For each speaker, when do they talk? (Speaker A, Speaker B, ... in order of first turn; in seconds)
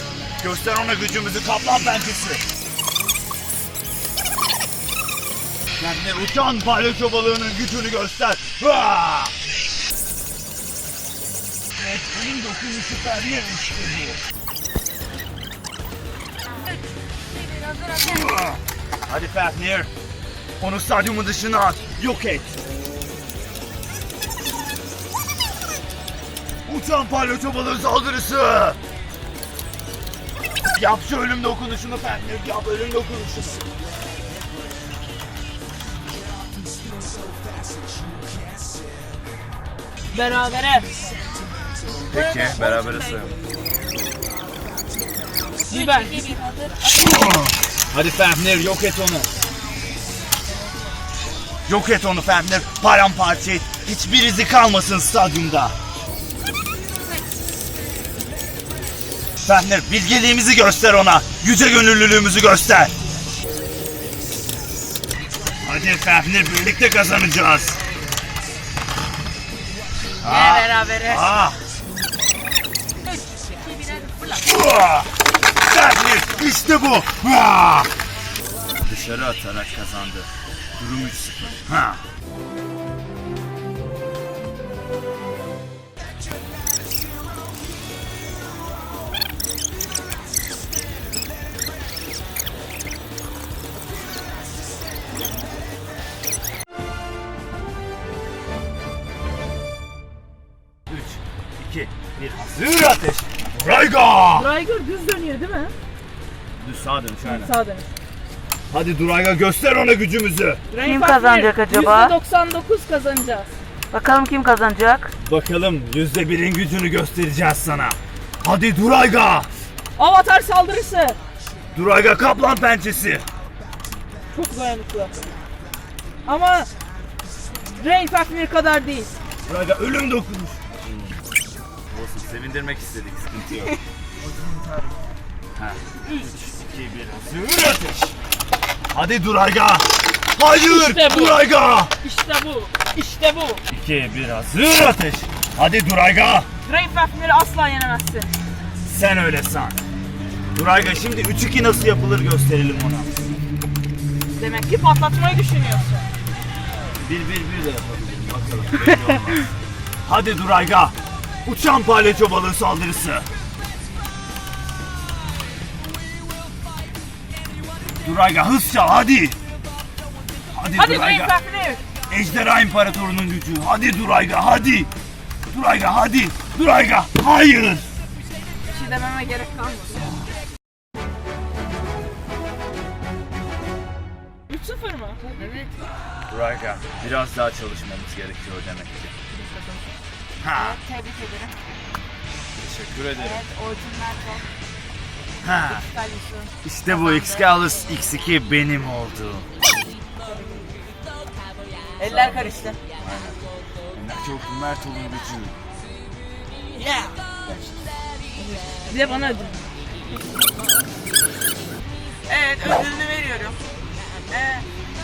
Speaker A: 0.4-2.5, 5.8-9.3, 11.8-14.2, 18.1-19.9, 20.6-22.6, 26.7-28.8, 30.7-33.6, 42.1-43.4, 47.0-49.3, 51.7-55.8, 59.5-62.9, 65.6-67.8, 70.2-71.6, 74.5-77.9, 78.8-82.0, 100.9-104.5, 106.6-107.5, 108.7-110.6, 115.2-119.5, 121.7-123.2, 129.5-131.2, 131.9-133.8, 135.6-138.2, 138.9-141.9, 143.7-146.5, 148.9-149.8, 150.5-153.1, 157.0-159.5, 160.1-163.3, 168.0-169.4, 170.5-171.3, 172.1-174.9, 175.5-177.9, 186.3-189.1, 190.4-190.8, 192.6-193.4, 195.4-195.8, 196.6-199.5, 202.1-205.6
Speaker B: 16.5-18.4, 42.1-43.2, 45.7-47.2, 70.2-71.3, 73.0-74.5, 110.8-112.2, 113.9-115.1, 185.2-185.7, 190.6-191.6, 193.2-194.5, 195.7-197.5, 202.0-202.8, 206.8-207.2, 212.3-213.6, 214.3-214.7
Speaker C: 40.1-40.9, 45.7-46.2, 104.3-105.7, 107.2-107.9, 110.7-113.5, 120.0-121.2, 124.3-125.3, 126.2-126.7, 127.7-129.1, 140.6-141.4, 142.0-143.6, 146.7-148.3, 154.4-156.1, 170.7-171.8, 178.7-180.1, 184.5-185.2, 189.3-189.9, 202.0-202.7, 208.3-209.6